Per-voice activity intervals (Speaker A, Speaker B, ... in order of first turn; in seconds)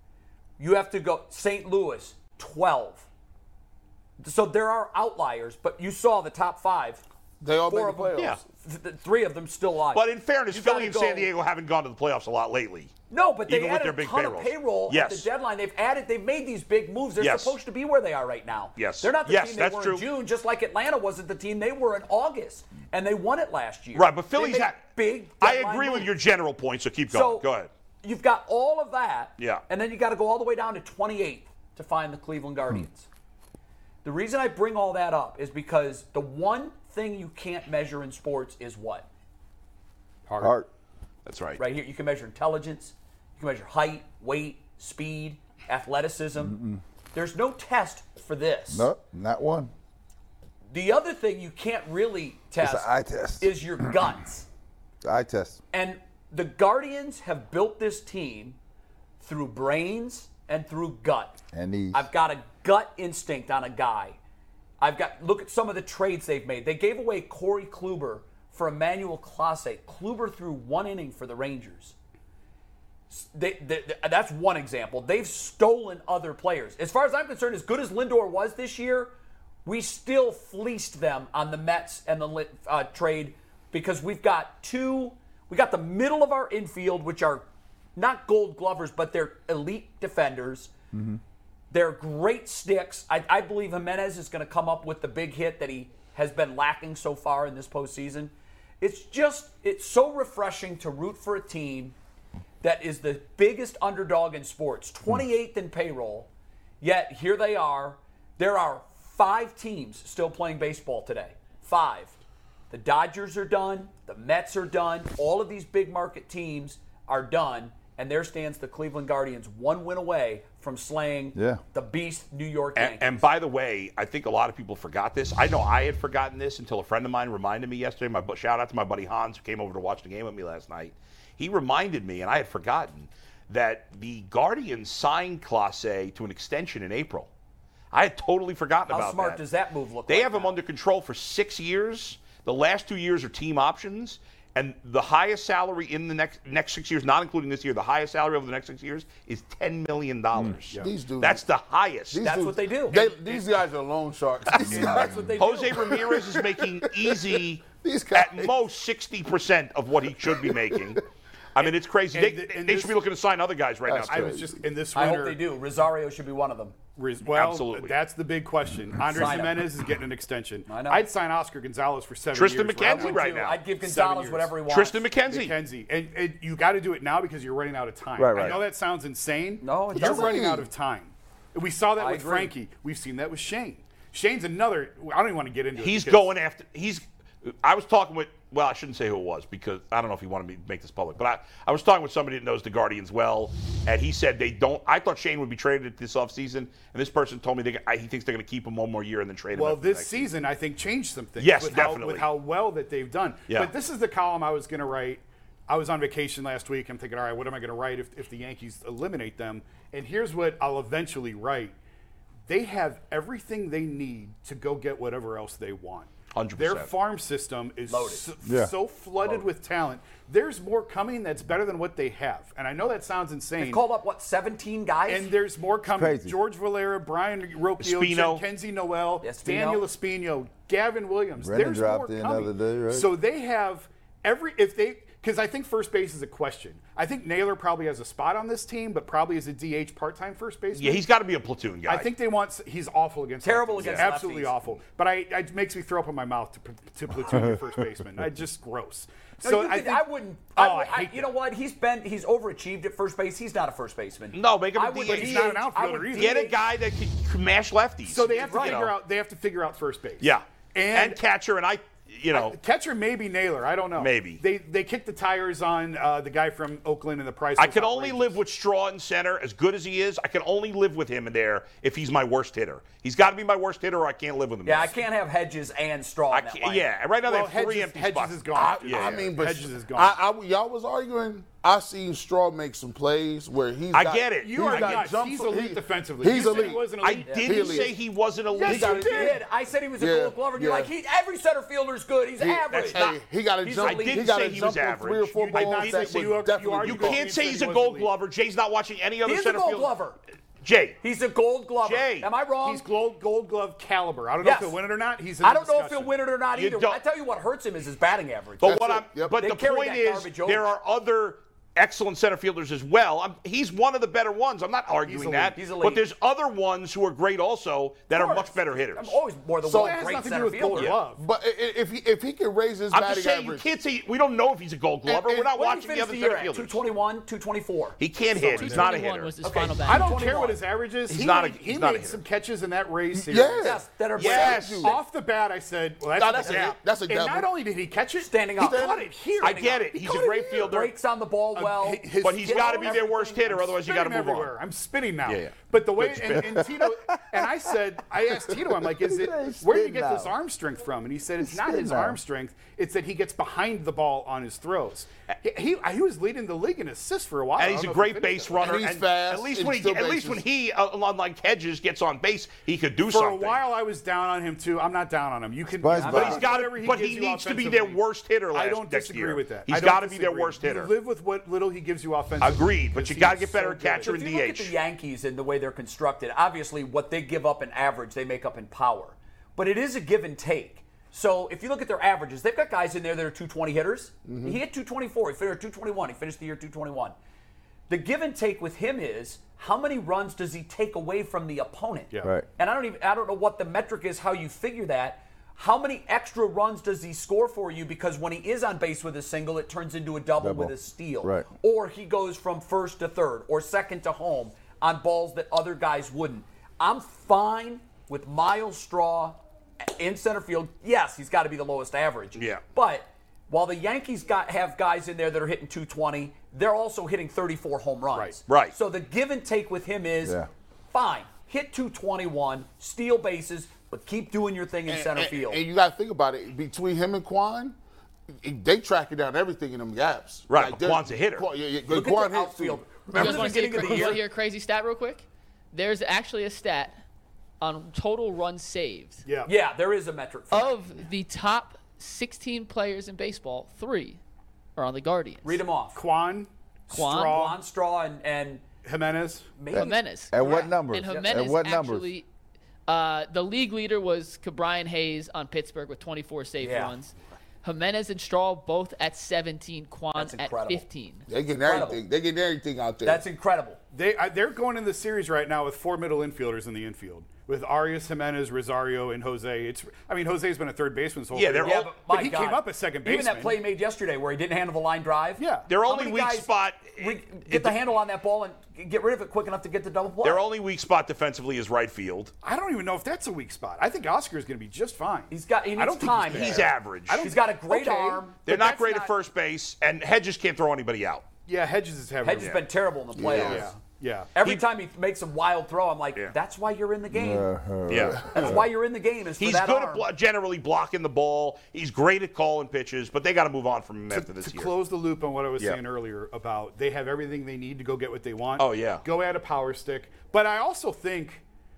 Speaker A: 0.6-3.0, 4.2-7.0, 7.7-11.3, 13.1-26.1, 27.1-27.5, 28.0-33.1, 34.0-39.1, 41.6-46.6, 47.1-48.9, 50.7-52.9, 53.4-54.5, 55.7-58.6, 59.2-61.4, 61.9-64.2, 64.8-71.9, 73.1-79.1, 79.6-90.7, 91.7-101.9, 102.6-106.3, 106.8-112.1, 112.7-123.2, 138.9-140.6, 152.2-153.4, 154.8-156.0, 164.9-166.9, 169.1-169.6, 170.7-171.1, 172.8-175.1, 179.6-180.5, 182.0-182.5, 217.9-218.3, 223.6-225.3, 229.2-229.8, 243.4-244.6, 249.4-256.5, 258.3-258.9, 274.6-276.9, 287.2-287.9, 288.7-294.4, 299.2-300.2, 301.0-302.8, 304.4-304.8, 305.4-310.7, 315.5-316.0, 318.1-321.0, 325.5-328.0, 329.4-330.6, 333.6-335.0, 338.2-343.6, 366.0-366.5, 374.0-387.1, 387.9-425.6, 431.9-434.2, 439.4-440.8, 445.4-446.0, 446.9-448.6, 449.6-451.4, 456.6-456.9, 460.1-460.8, 461.6-462.0, 463.0-463.8, 471.6-480.4, 485.3-488.9, 492.2-493.7, 494.3-497.5, 498.3-500.1
Speaker B: 7.4-8.4, 150.8-151.4, 152.1-158.5, 160.2-161.0, 163.9-164.7, 179.9-180.7, 278.5-287.9, 288.6-289.4, 290.0-290.9, 292.4-297.2, 308.6-309.4, 321.1-323.6, 325.1-325.5, 333.1-335.0, 336.1-337.5, 338.6-339.1, 358.6-360.4, 384.2-384.6, 424.9-427.8, 428.4-434.2, 461.3-463.2, 493.1-493.6, 497.9-498.6
Speaker C: 9.9-12.9, 13.5-15.3, 17.2-17.6, 18.8-20.1, 23.9-27.7, 29.4-29.6, 41.2-41.6, 122.8-137.3, 137.9-139.4, 140.1-152.2, 155.4-161.0, 161.5-164.3, 167.2-167.9, 172.3-173.6, 174.7-175.6, 185.8-200.3, 201.4-202.3, 216.3-216.9, 227.8-228.4, 240.7-242.1, 243.8-244.1, 254.3-255.6, 256.1-258.9, 260.2-262.6, 263.9-264.4, 267.6-274.9, 276.3-279.3, 283.9-285.1, 287.0-289.3, 292.7-293.1, 293.8-299.9, 300.6-301.0, 301.8-302.3, 306.5-307.0, 308.6-319.2, 322.9-326.8, 328.0-329.4, 331.1-332.2, 334.1-334.9, 339.4-340.9, 342.2-344.5, 345.2-346.5, 357.6-363.6, 366.0-370.9, 372.4-374.7, 412.4-412.6, 418.5-418.8, 430.5-431.5, 471.3-471.9, 475.7-477.8, 480.2-482.3, 486.0-487.3, 488.4-491.2, 493.3-493.6, 497.9-498.2, 499.4-504.7, 508.6-509.0
Speaker D: 40.3-40.6, 162.1-163.0, 164.1-165.4, 166.9-173.2, 173.8-174.5, 175.2-186.3, 199.5-211.7, 212.5-223.8, 225.1-241.0, 241.9-251.3, 255.1-256.4, 258.0-261.2, 262.3-268.4, 277.2-280.1, 284.4-287.7, 288.5-289.3, 295.4-298.1, 302.6-306.1, 315.1-315.6, 319.7-321.2, 328.4-328.9, 329.8-333.7, 334.8-339.6, 341.5-358.8, 363.1-368.0, 368.5-374.2, 392.1-392.4, 439.2-439.5, 445.9-447.6, 448.8-449.5, 463.9-473.6, 475.4-475.7, 482.4-489.1, 491.5-492.6, 493.3-494.3, 504.1-511.4
Speaker E: 40.4-40.7, 46.5-46.8, 48.7-49.7, 52.6-54.0, 55.0-55.6, 61.5-62.0, 90.9-91.2, 121.3-121.6, 154.7-155.2, 178.2-178.6, 218.4-218.7, 225.9-226.4, 231.4-233.1, 346.4-347.4, 348.5-350.3, 351.4-352.2, 365.8-366.4, 400.4-401.5, 420.2-420.5, 449.7-452.1, 497.1-498.6
Speaker F: 328.5-330.2, 433.1-437.0, 437.6-439.2, 440.5-444.2, 444.8-445.6, 446.9-447.4, 449.7-452.2, 452.9-461.2